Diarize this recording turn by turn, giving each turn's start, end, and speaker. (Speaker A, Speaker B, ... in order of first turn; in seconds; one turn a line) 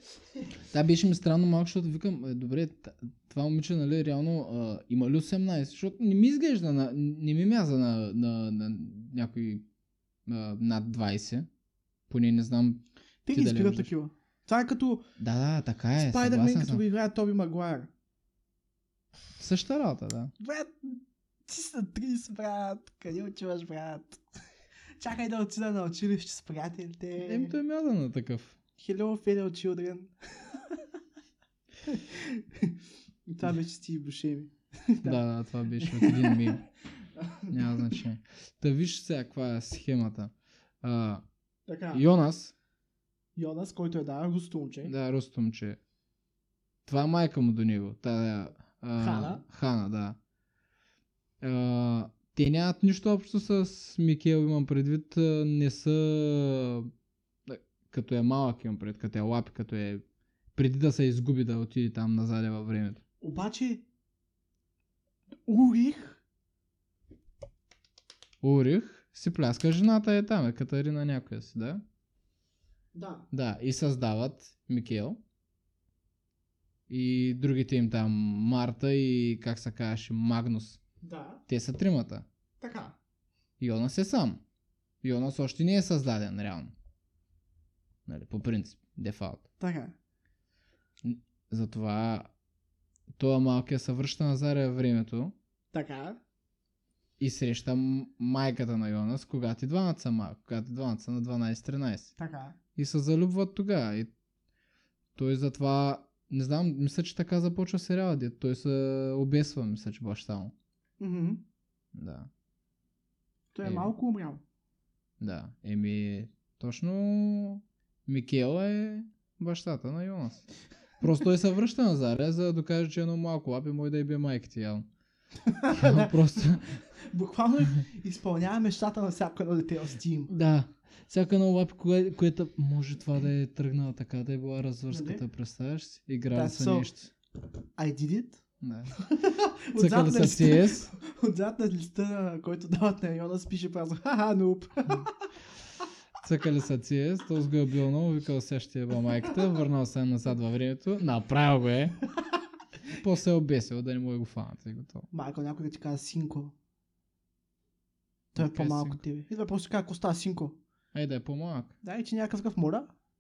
Speaker A: 0.7-9.7
Speaker A: 10.2-11.5
Speaker A: 12.1-13.9
Speaker B: 13.2-15.1
Speaker A: 15.2-16.8
Speaker B: 16.0-17.9
Speaker A: 19.4-20.3
Speaker B: 20.4-24.2
Speaker B: 25.0-27.5
Speaker A: 27.2-28.6
Speaker B: 28.8-30.8
Speaker B: 31.8-32.8
Speaker B: 33.3-35.2
Speaker A: 35.0-36.6
Speaker B: 35.8-36.5
Speaker B: 37.1-37.9
Speaker A: 37.5-41.2
Speaker B: 41.7-42.0
Speaker A: 41.9-42.5
Speaker B: 43.4-44.9
Speaker A: 44.8-45.8
Speaker A: 46.9-50.2
Speaker B: 49.0-49.4
Speaker A: 51.4-56.9
Speaker A: 57.5-60.0
Speaker A: 60.5-63.0
Speaker B: 63.2-63.9
Speaker B: 65.5-66.2
Speaker A: 68.4-71.8
Speaker B: 72.9-73.3
Speaker A: 73.3-75.2
Speaker A: 76.9-80.8
Speaker B: 81.0-81.4
Speaker A: 81.5-82.2
Speaker B: 82.6-83.0
Speaker A: 83.6-84.4
Speaker A: 85.0-86.7
Speaker A: 88.0-89.5
Speaker B: 89.6-89.9
Speaker A: 91.0-92.3
Speaker A: 93.1-95.3
Speaker B: 95.7-96.2
Speaker A: 97.2-102.1
Speaker B: 102.2-102.6
Speaker A: 102.8-104.1
Speaker A: 105.2-110.5
Speaker B: 111.0-111.4
Speaker A: 111.9-112.3
Speaker B: 113.5-114.4
Speaker A: 113.6-113.9
Speaker A: 115.2-120.5
Speaker A: 121.0-124.9
Speaker B: 125.4-130.3
Speaker A: 125.7-126.7
Speaker A: 130.3-137.1
Speaker B: 134.9-135.2
Speaker B: 136.3-136.9
Speaker B: 137.8-138.4
Speaker A: 138.6-138.9
Speaker B: 138.9-145.1
Speaker A: 139.8-140.9
Speaker A: 146.2-152.0
Speaker A: 152.9-155.1
Speaker B: 155.1-156.5
Speaker A: 158.3-159.0
Speaker B: 158.3-160.6
Speaker A: 160.9-161.8
Speaker B: 161.8-162.9